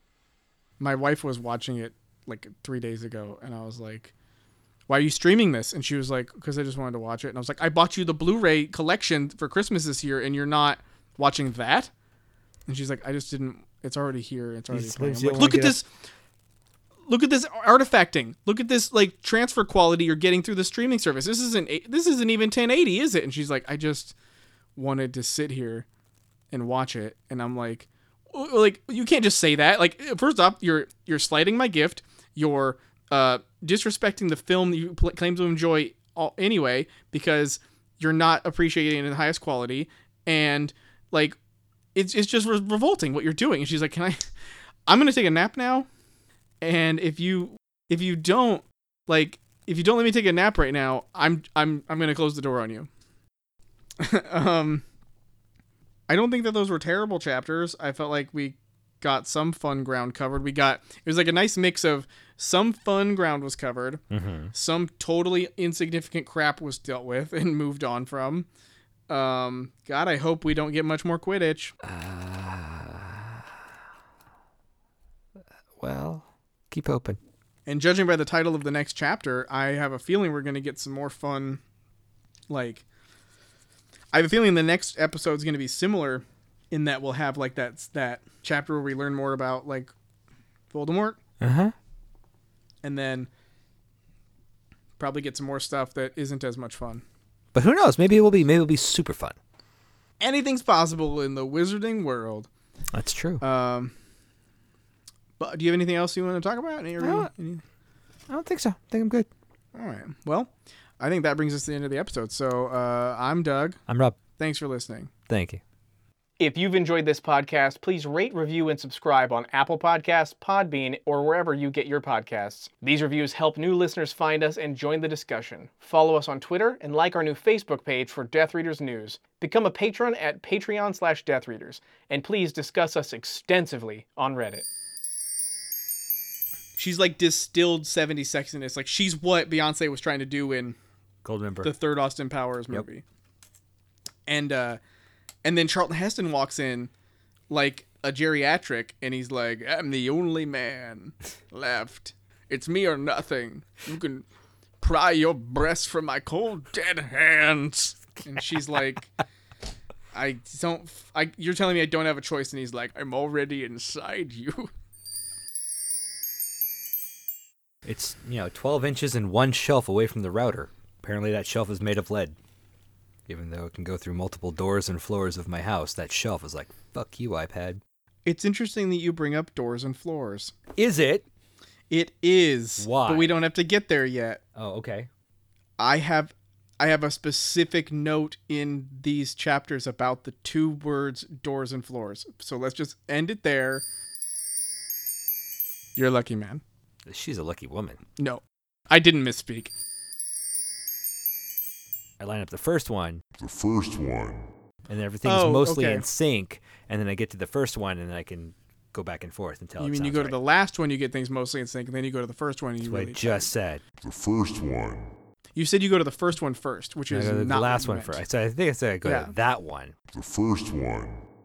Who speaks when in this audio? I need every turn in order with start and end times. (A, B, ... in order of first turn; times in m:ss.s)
0:00.8-0:04.1 A
0:04.9-0:11.9 A
0:12.7-0:15.9 A
0:14.7-0:15.8 B
0:17.1-0:24.2 A
0:24.8-0:25.9 A
0:26.5-0:41.4 A
0:42.0-0:44.2 A
0:44.9-0:45.9 A
0:46.6-0:52.9 A
0:54.0-0:54.8 A
0:56.1-1:08.5 A
1:04.1-1:04.5 B
1:09.1-1:11.7 A
1:11.8-1:13.4 B
1:15.8-1:17.2 B
1:17.7-1:21.6 A
1:22.5-1:22.8 A
1:24.1-1:29.9 A
1:30.7-1:31.2 A
1:31.4-1:31.8 B
1:32.8-1:33.3 A
1:35.0-1:37.0 A
1:37.5-1:39.4 B
1:40.2-1:42.5 A
1:42.9-1:43.4 B
1:43.4-1:43.9 A
1:45.4-1:47.6 A
1:47.0-1:47.3 B
1:48.3-1:49.3 B
1:49.7-1:53.8 A
1:53.9-1:54.2 B
1:54.4-1:55.1 A
1:55.3-1:55.6 B
1:56.4-2:14.6 A
2:16.8-2:20.8 A
2:21.2-2:21.7 B
2:21.6-2:23.0 A
2:24.3-2:24.8 A
2:25.4-2:26.9 A
2:27.5-2:34.2 A
2:34.8-2:39.1 A
2:40.1-2:44.7 A
2:47.8-2:52.4 B
2:53.3-2:57.8 B
2:58.3-3:00.6 A
3:00.8-3:01.3 B
3:01.9-3:04.4 A
3:02.8-3:03.4 B
3:04.6-3:05.1 B
3:05.8-3:13.8 A
3:16.0-3:16.6 A
3:17.1-3:18.0 B
3:18.2-3:19.7 A
3:22.2-3:23.2 B
3:23.4-3:24.5 C
3:24.9-3:30.4 B
3:25.2-3:26.0 A
3:29.8-3:33.5 A
3:32.8-3:33.8 B
3:34.0-3:35.1 C
3:35.6-3:38.2 A
3:37.1-3:39.9 B
3:39.0-3:39.3 A
3:40.1-3:41.2 C